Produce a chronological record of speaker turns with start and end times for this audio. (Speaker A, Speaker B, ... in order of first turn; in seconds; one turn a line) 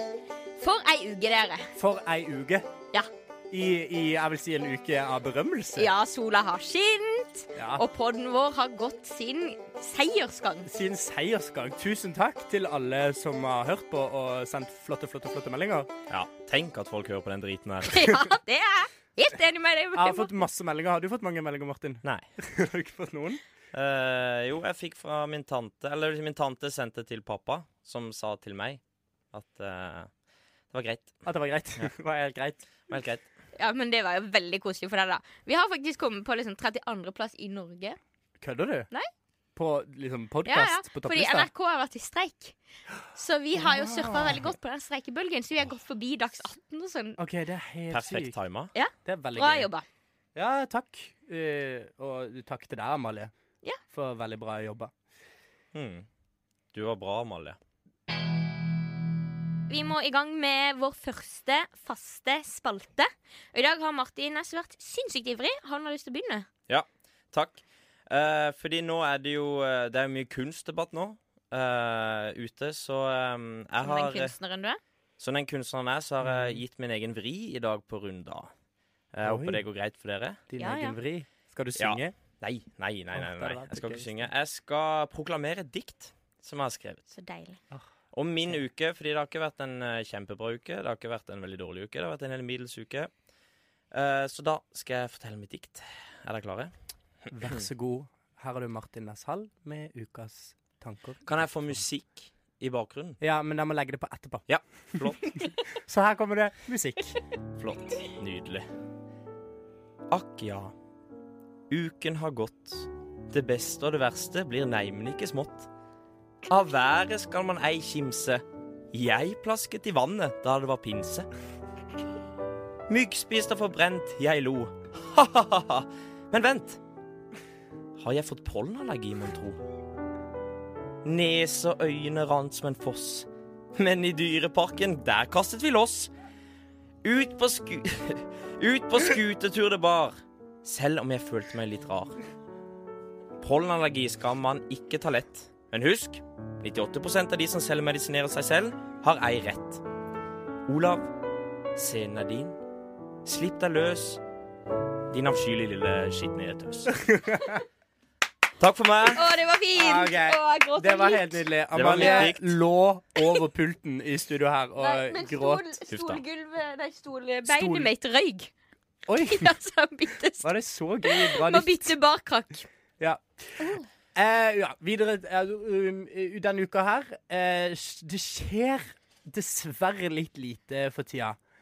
Speaker A: 0.6-1.7
Speaker B: 1.8-2.7
Speaker B: 3.5-5.9
Speaker A: 5.8-10.7
Speaker B: 7.5-7.8
Speaker B: 10.7-15.9
Speaker C: 16.1-18.1
Speaker A: 17.9-20.4
Speaker B: 19.9-23.4
Speaker C: 23.7-28.8
Speaker C: 29.3-30.1
Speaker C: 30.7-31.2
Speaker B: 31.2-32.6
Speaker C: 32.9-33.2
Speaker A: 33.5-38.0
Speaker B: 38.4-38.9
Speaker B: 39.5-41.5
Speaker A: 40.5-42.5
Speaker A: 43.1-47.2
Speaker B: 43.5-44.5
Speaker B: 47.2-48.3
Speaker C: 47.9-48.7
Speaker A: 48.7-49.8
Speaker B: 49.0-49.7
Speaker B: 50.3-53.3
Speaker B: 53.9-54.9
Speaker C: 55.7-56.0
Speaker C: 56.7-57.6
Speaker A: 59.7-66.5
Speaker C: 66.7-74.3
Speaker A: 73.8-74.8
Speaker C: 75.2-78.5
Speaker B: 76.2-76.6
Speaker C: 79.1-80.4
Speaker B: 79.2-79.6
Speaker B: 80.5-82.1
Speaker A: 80.6-81.0
Speaker C: 81.8-87.1
Speaker B: 83.1-84.1
Speaker A: 87.1-87.6
Speaker C: 88.1-93.1
Speaker C: 93.9-96.7
Speaker C: 97.2-97.6
Speaker B: 97.3-101.3
Speaker C: 101.2-103.2
Speaker B: 103.2-107.2
Speaker C: 104.5-105.5
Speaker C: 107.6-108.7
Speaker C: 110.1-110.7
Speaker C: 111.7-115.7
Speaker C: 116.5-121.3
Speaker C: 122.9-126.8
Speaker C: 128.0-129.6
Speaker C: 131.0-136.1
Speaker C: 137.0-142.2
Speaker C: 143.4-149.8
Speaker C: 150.7-151.1
Speaker C: 151.7-152.6
Speaker C: 153.2-154.2
Speaker C: 155.1-156.9
Speaker B: 156.9-157.6
Speaker C: 158.6-159.2
Speaker A: 159.1-162.3
Speaker B: 159.7-165.7
Speaker C: 161.7-162.6
Speaker A: 164.8-168.5
Speaker C: 165.9-166.2
Speaker B: 167.4-167.9
Speaker B: 169.1-169.5
Speaker A: 169.2-170.5
Speaker B: 170.4-171.9
Speaker A: 171.0-172.7
Speaker B: 173.0-181.4
Speaker A: 173.6-173.8